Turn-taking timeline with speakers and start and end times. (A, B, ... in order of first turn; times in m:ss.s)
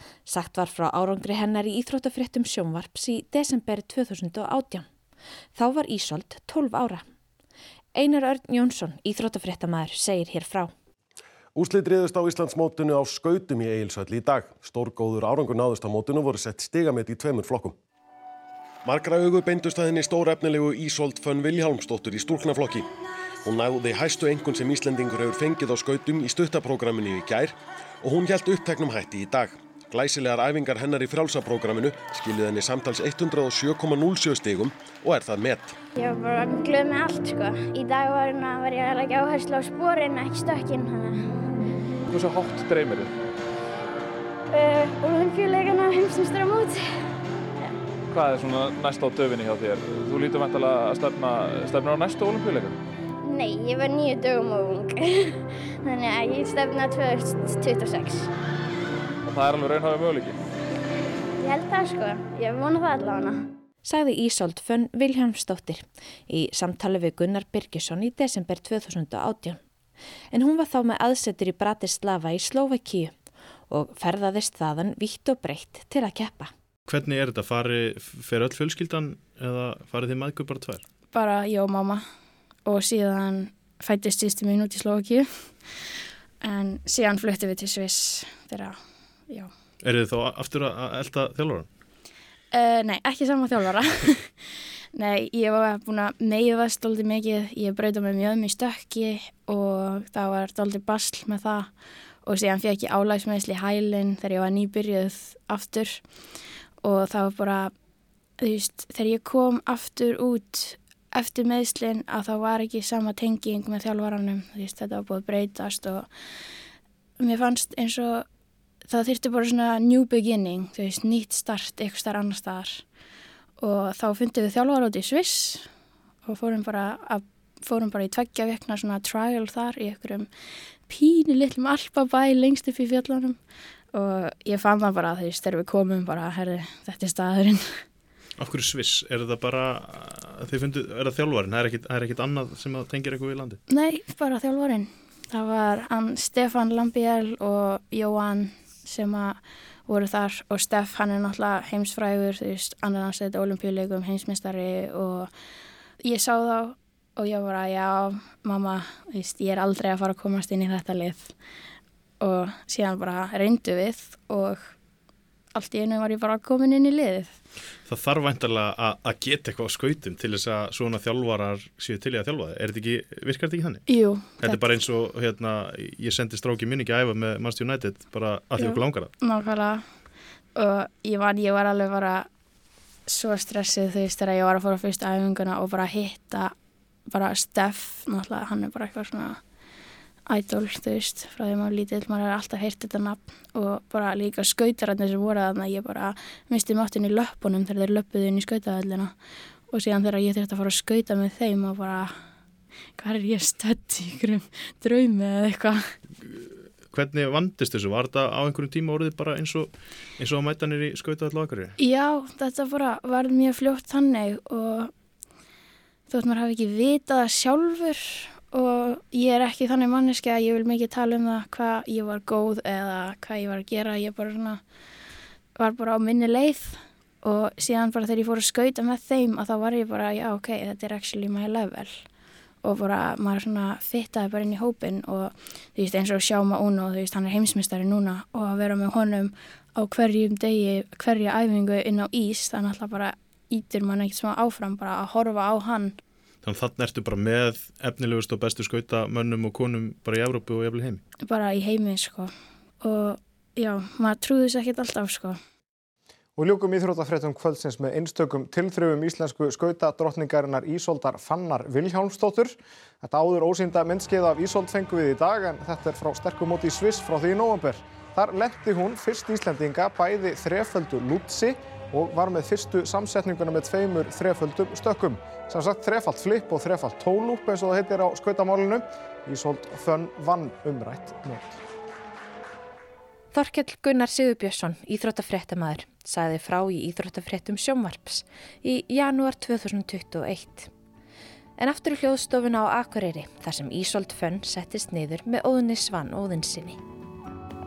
0:00.2-0:04.9 A
0:05.6-0:07.0 A
0:07.9-0:10.7 A
0:11.6-0:17.8 B
0:18.8-0:22.9 B
0:23.4-0:35.7 B
0:35.9-0:41.4 C
0:42.1-0:43.1 D
0:44.5-0:46.8 C
0:48.1-0:52.8 D
0:53.2-0:58.3 C
0:59.3-1:00.4 D
1:01.4-1:03.4 C
1:03.8-1:09.6 A
1:10.3-1:13.1 A
1:13.7-1:16.5 A
1:16.9-1:20.8 E
1:21.1-1:22.0 F
1:22.6-1:25.5 F
1:26.4-1:28.8 F
1:29.8-1:31.7 E
1:32.5-1:41.7 F
1:42.2-1:46.0 F
1:46.8-1:47.7 F
1:48.4-1:56.1 F
1:57.2-1:58.2 F
1:58.9-2:02.8 F
2:03.6-2:05.7 F
2:06.2-2:10.3 F
2:10.9-2:13.4 F
2:13.9-2:17.8 F
2:18.4-2:23.6 E
2:23.7-2:35.3 F
2:36.0-2:41.3 F
2:42.2-2:44.7 F
2:45.5-2:47.4 F
2:47.9-2:53.8 E
2:53.9-2:54.6 F
2:54.4-2:59.1 E
2:58.6-2:59.8 F
3:00.6-3:02.3 F
3:03.1-3:06.5 F
3:07.1-3:09.4 F
3:10.3-3:19.1 F
3:19.7-3:22.1 F
3:23.0-3:25.9 F
3:26.3-3:31.7 E
3:31.8-3:34.9 F
3:36.1-3:44.6 F
3:45.6-3:52.0 F
3:52.6-4:06.0 F
4:06.4-4:11.0 E
4:11.2-4:15.4 F
4:16.4-4:41.6 G
4:43.3-4:50.7 A
4:51.6-4:56.8 A